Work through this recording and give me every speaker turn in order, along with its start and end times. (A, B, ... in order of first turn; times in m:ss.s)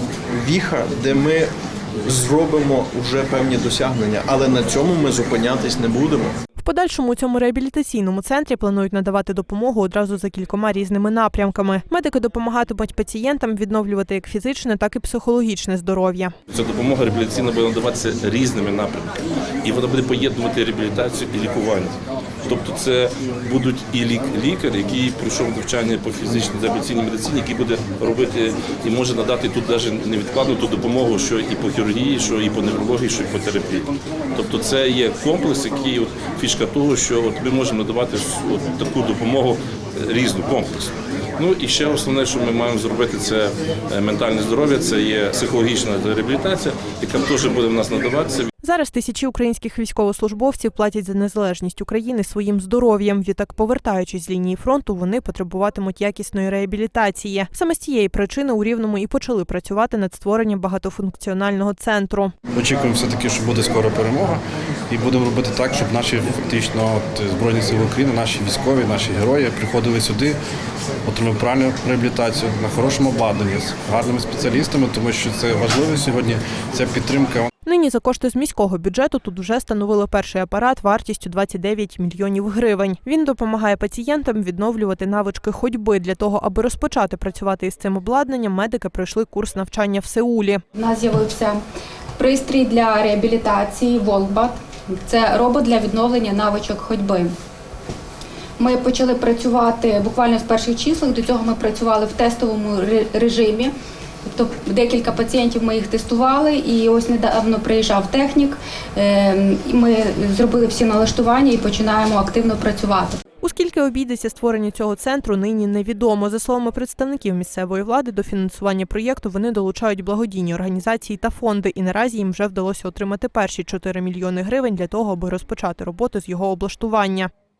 0:00.3-0:01.5 A
0:02.0-0:06.3 A
0:06.6-0:16.3 B
0:16.5-0:48.5 C
0:48.6-1:02.3 B
1:02.5-1:10.4 D
1:11.0-1:17.5 D
1:17.6-1:30.6 B
1:30.7-1:31.6 E
1:32.2-1:37.3 E
1:38.6-1:43.7 E
1:44.2-1:53.2 E
1:53.4-2:07.3 B